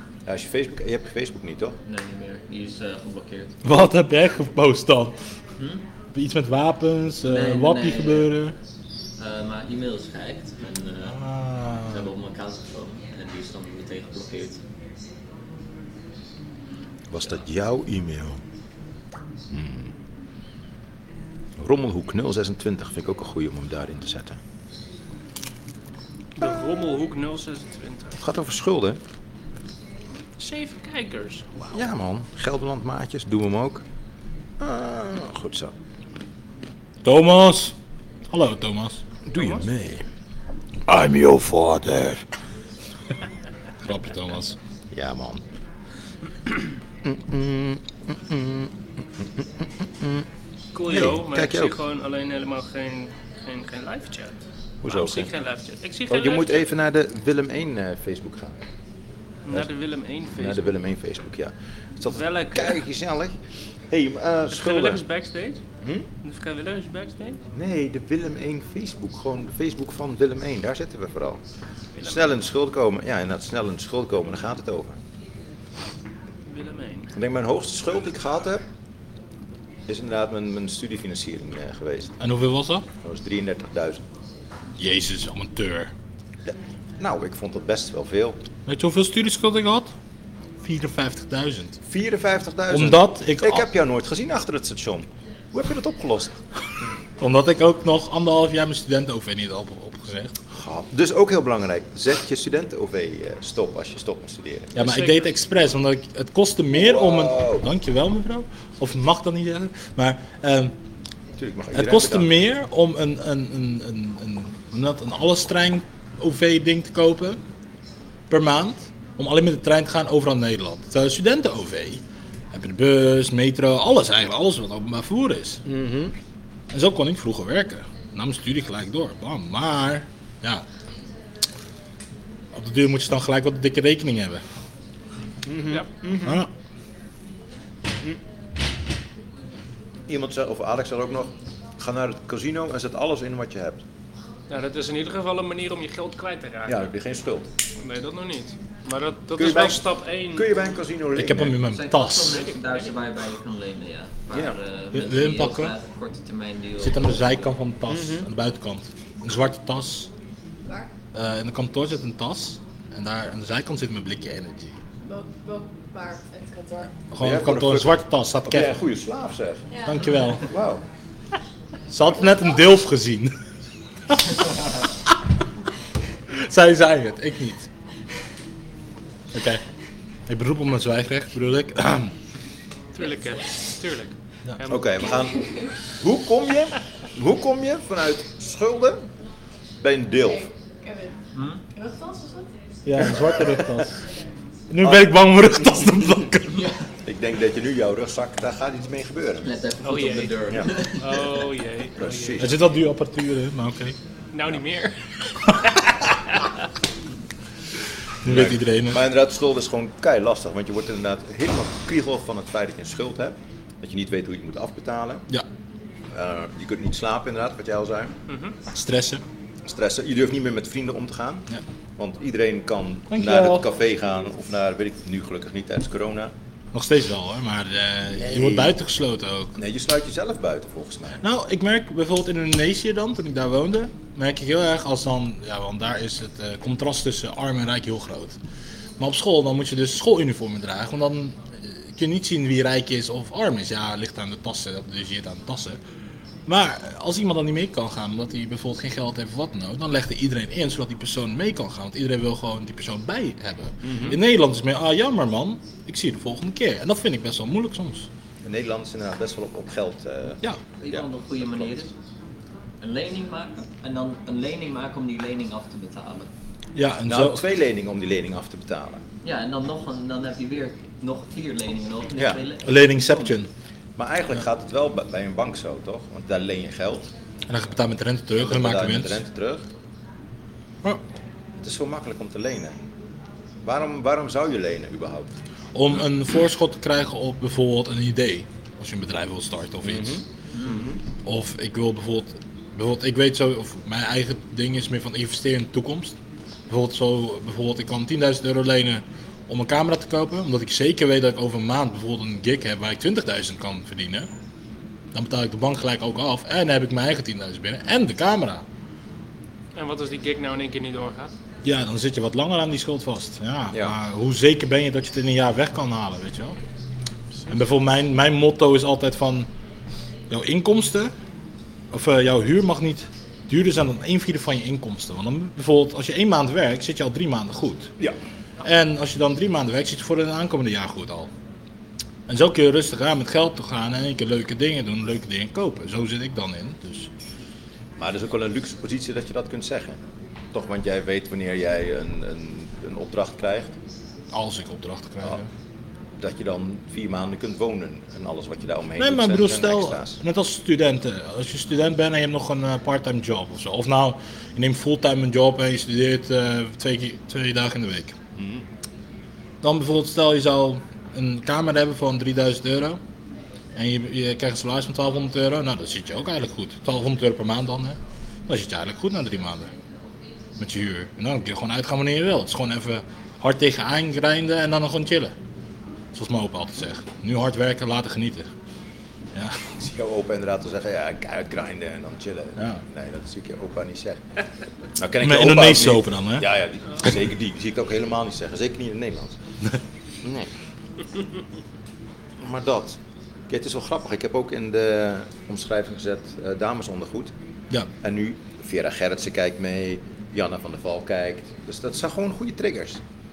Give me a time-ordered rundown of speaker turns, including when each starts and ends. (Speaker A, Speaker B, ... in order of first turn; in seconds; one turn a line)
Speaker A: 0.2-1.8
Speaker B: 1.9-3.6
Speaker C: 3.6-5.2
Speaker C: 6.1-8.6
Speaker B: 7.2-8.3
Speaker B: 9.2-11.2
Speaker C: 11.0-12.1
Speaker B: 11.8-14.6
Speaker A: 17.1-18.4
Speaker A: 19.5-19.9
Speaker A: 21.6-24.4
Speaker D: 26.4-28.2
Speaker A: 28.2-29.0
Speaker D: 30.4-31.9
Speaker A: 31.7-33.8
Speaker A: 34.6-35.7
Speaker C: 37.0-37.7
Speaker C: 38.3-39.0
Speaker A: 39.3-40.1
Speaker D: 39.4-39.6
Speaker A: 40.9-42.2
Speaker C: 43.8-44.6
Speaker A: 44.9-45.4
Speaker A: 47.0-50.2
Speaker D: 50.8-56.7
Speaker A: 50.9-51.8
Speaker A: 54.8-55.3
Speaker A: 56.1-58.6
Speaker D: 59.5-60.7
Speaker A: 60.3-63.4
Speaker D: 62.1-62.8
Speaker A: 63.9-65.0
Speaker D: 64.5-65.6
Speaker D: 66.2-67.4
Speaker A: 67.5-71.4
Speaker D: 72.0-72.3
Speaker A: 72.0-75.0
Speaker D: 76.5-77.1
Speaker A: 77.1-78.6
Speaker A: 79.9-82.2
Speaker C: 82.2-82.8
Speaker A: 83.0-84.0
Speaker C: 84.8-85.9
Speaker A: 86.5-88.4
Speaker C: 88.7-89.9
Speaker C: 90.6-91.8
Speaker A: 91.9-96.4
Speaker C: 92.7-93.7
Speaker C: 97.2-100.3
Speaker A: 100.5-104.8
Speaker C: 104.8-110.7
Speaker D: 104.8-105.2
Speaker A: 106.7-107.7
Speaker A: 111.4-112.3
Speaker C: 111.7-117.4
Speaker C: 118.3-125.6
Speaker A: 125.7-126.1
Speaker C: 126.7-130.7
Speaker C: 132.5-134.4
Speaker A: 135.5-136.4
Speaker C: 136.2-136.5
Speaker A: 140.1-143.8
Speaker D: 144.5-146.9
Speaker A: 146.7-147.5
Speaker D: 147.8-150.6
Speaker A: 149.4-151.6
Speaker C: 151.2-152.4
Speaker B: 151.6-157.3
Speaker D: 152.3-152.9
Speaker A: 154.3-154.6
Speaker C: 154.9-155.7
Speaker C: 156.8-160.1
Speaker A: 157.9-158.3
Speaker C: 161.1-164.8
Speaker E: 165.0-166.9
Speaker C: 167.1-168.8
Speaker A: 167.2-169.7
Speaker E: 169.7-170.2
Speaker C: 169.9-170.4
Speaker A: 170.5-170.8
Speaker C: 171.9-173.3
Speaker C: 174.1-174.6
Speaker C: 176.3-177.7
Speaker C: 179.3-179.6
Speaker C: 180.3-182.1
Speaker D: 182.9-185.1
Speaker A: 184.7-189.0
Speaker E: 185.2-185.6
Speaker A: 189.8-190.5
Speaker E: 190.2-191.1
Speaker B: 191.3-191.6
Speaker E: 191.8-193.2
Speaker C: 192.9-194.0
Speaker C: 194.7-196.7
Speaker A: 197.1-199.5
Speaker B: 199.4-201.2
Speaker D: 199.8-202.5
Speaker A: 201.9-202.6
Speaker C: 202.4-204.0
Speaker D: 204.3-206.5
Speaker C: 208.2-209.0
Speaker A: 208.2-215.3
Speaker A: 216.1-218.1
Speaker D: 218.3-218.6
Speaker C: 218.7-219.2
Speaker A: 219.7-221.5
Speaker A: 222.0-226.3
Speaker C: 223.1-223.7
Speaker C: 226.7-229.6
Speaker A: 228.2-228.8
Speaker A: 229.6-231.2
Speaker C: 231.2-238.4
Speaker C: 239.0-245.8
Speaker C: 246.5-258.1
Speaker A: 253.8-254.2
Speaker A: 258.4-261.1
Speaker B: 260.8-261.9
Speaker B: 262.8-266.3
Speaker C: 266.8-267.4
Speaker A: 267.1-269.0
Speaker B: 269.2-273.3
Speaker A: 272.2-272.4
Speaker C: 272.6-273.5
Speaker A: 274.0-277.1
Speaker C: 277.5-279.2
Speaker A: 278.4-279.7
Speaker A: 281.6-282.8
Speaker A: 283.6-285.3
Speaker C: 285.7-290.2
Speaker A: 289.8-291.0
Speaker B: 290.5-290.9
Speaker C: 291.2-296.2
Speaker C: 296.7-304.3
Speaker C: 305.1-308.6
Speaker D: 309.8-311.3
Speaker C: 311.6-316.6
Speaker A: 313.7-314.0
Speaker C: 317.5-319.5
Speaker C: 320.3-321.1
Speaker C: 321.9-327.9
Speaker C: 328.6-331.3
Speaker C: 332.3-337.1
Speaker A: 338.0-340.0
Speaker A: 340.5-343.8
Speaker C: 344.3-345.5
Speaker A: 346.2-350.2
Speaker C: 349.0-358.2
Speaker A: 358.4-358.7
Speaker C: 359.6-363.0
Speaker C: 363.8-369.7
Speaker C: 370.6-375.3
Speaker C: 376.1-378.5
Speaker C: 379.4-379.6
Speaker A: 379.8-384.2
Speaker C: 382.6-382.8
Speaker A: 385.0-389.4
Speaker C: 385.2-386.5
Speaker A: 390.2-390.5
Speaker A: 392.4-397.3
Speaker A: 398.0-403.0